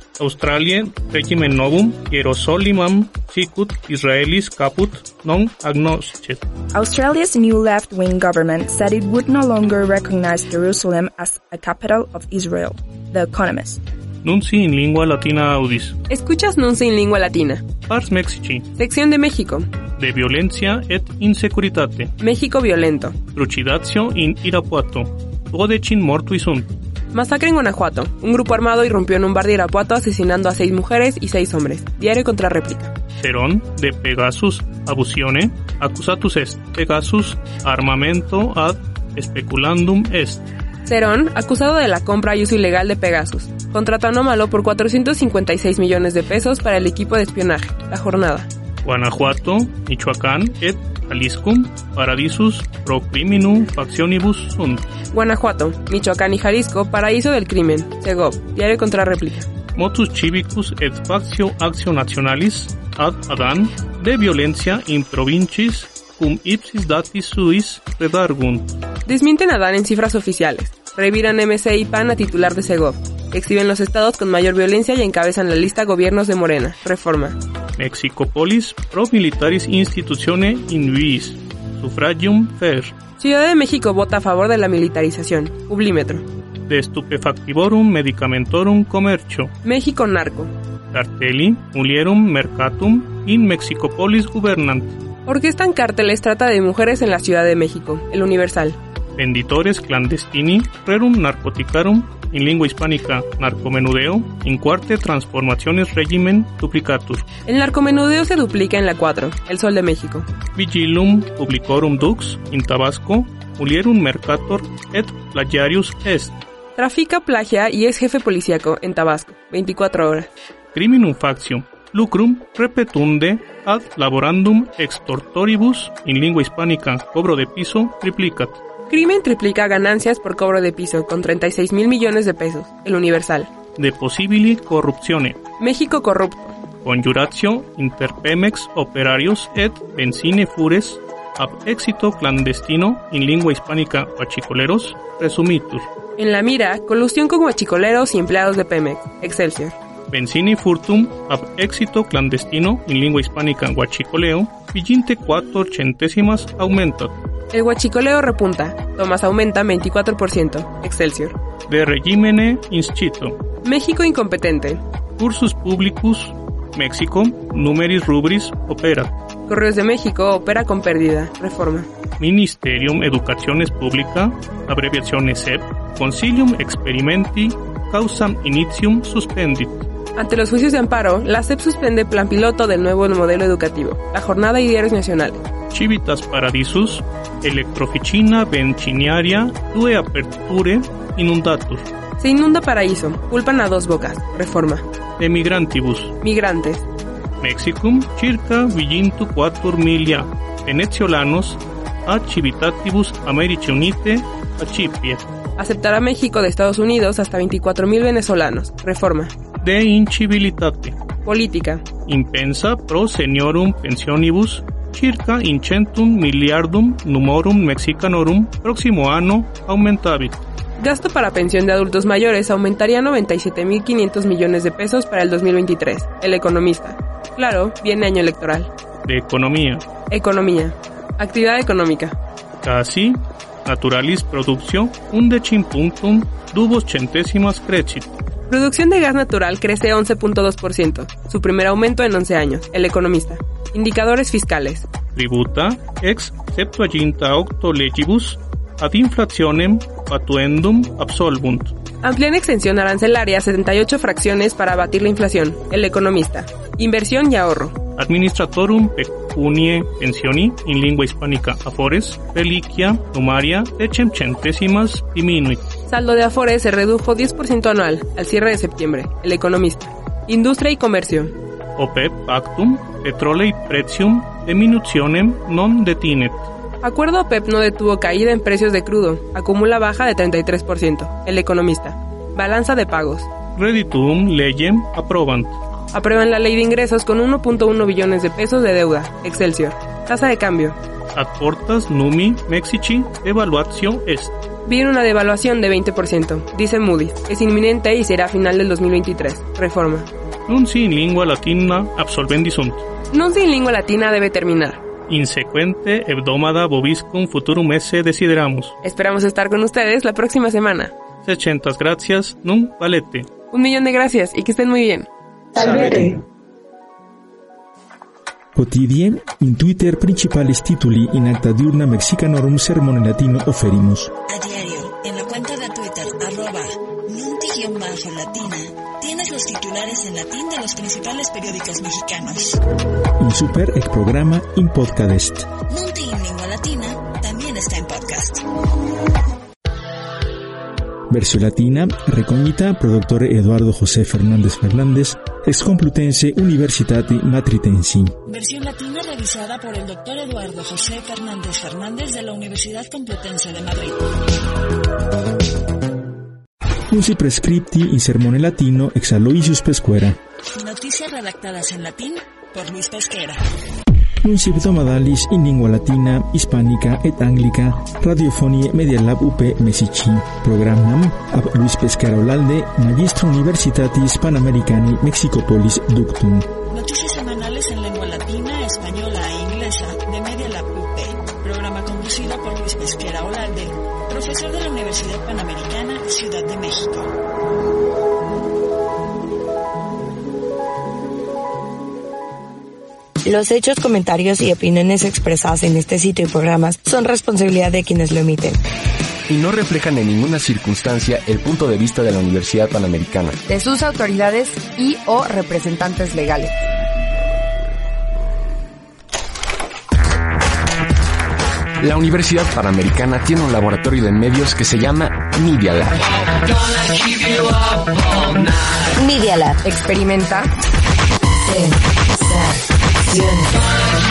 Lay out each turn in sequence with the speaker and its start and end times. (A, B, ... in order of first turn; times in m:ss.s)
0:00.2-0:06.4 A
0:06.7-0:13.8 B
0:14.2-0:16.0 A
0:16.1-0:17.6 C
0:17.9-0:18.7 A
0:18.8-0:19.7 C
0:20.0-0:22.1 A
0:22.2-0:23.2 C
0:23.3-0:26.7 A
0:27.1-0:32.9 C
0:33.2-0:40.4 A
0:40.8-0:48.5 C
0:48.8-0:54.8 A
0:55.1-0:59.5 C
0:59.8-1:08.8 A
1:09.1-1:17.4 C
1:17.8-1:22.9 A
1:23.2-1:26.2 C
1:26.7-1:29.5 A
1:29.6-1:30.5 C
1:30.9-1:35.0 A
1:35.2-1:38.8 C
1:39.2-1:47.2 A
1:47.5-1:50.3 C
1:50.5-1:56.4 A
1:56.8-2:00.3 C
2:00.7-2:08.6 A
2:08.9-2:13.5 C
2:13.8-2:15.4 A
2:15.6-2:16.6 C
2:16.8-2:25.9 A
2:26.2-2:29.8 C
2:30.1-2:37.2 A
2:37.5-2:41.4 C
2:41.7-2:43.4 A
2:43.6-2:44.8 C
2:45.2-2:49.2 A
2:49.5-2:51.9 C
2:52.2-2:59.9 A
3:00.2-3:05.4 C
3:05.7-3:11.9 A
3:12.2-3:14.8 C
3:15.2-3:16.2 A
3:16.2-3:16.9 C
3:17.4-3:25.3 A
3:25.6-3:29.3 C
3:29.6-3:31.0 A
3:31.2-3:31.8 C
3:32.1-3:40.4 A
3:40.8-3:48.7 C
3:49.0-3:49.8 A
3:50.1-3:52.2 C
3:52.6-3:58.1 A
3:58.5-4:04.9 C
4:05.1-4:11.7 A
4:12.0-4:17.8 C
4:18.0-4:25.6 A
4:25.9-4:31.3 C
4:31.8-4:36.5 A
4:36.8-4:43.3 C
4:43.6-4:45.6 A
4:45.9-4:50.8 C
4:51.1-4:54.3 A
4:54.6-5:00.1 C
5:00.5-5:02.8 A
5:03.1-5:04.8 C
5:05.1-5:08.8 A
5:08.8-5:10.9 C
5:11.2-5:13.3 A
5:13.5-5:15.1 C
5:15.6-5:16.1 A
5:15.6-5:16.0 D
5:18.6-5:24.1 E
5:24.3-5:32.6 F
5:33.2-5:35.5 E
5:35.7-5:38.4 F
5:41.1-5:48.2 E
5:48.3-5:54.0 F
5:56.9-6:00.2 E
6:00.5-6:03.4 F
6:04.2-6:16.5 E
6:16.7-6:27.1 F
6:33.2-6:38.6 D
6:39.3-6:43.4 G
6:43.5-6:46.5 H
6:51.8-6:55.9 G
6:59.0-6:59.6 D
6:59.7-7:00.5 H
7:03.2-7:03.5 D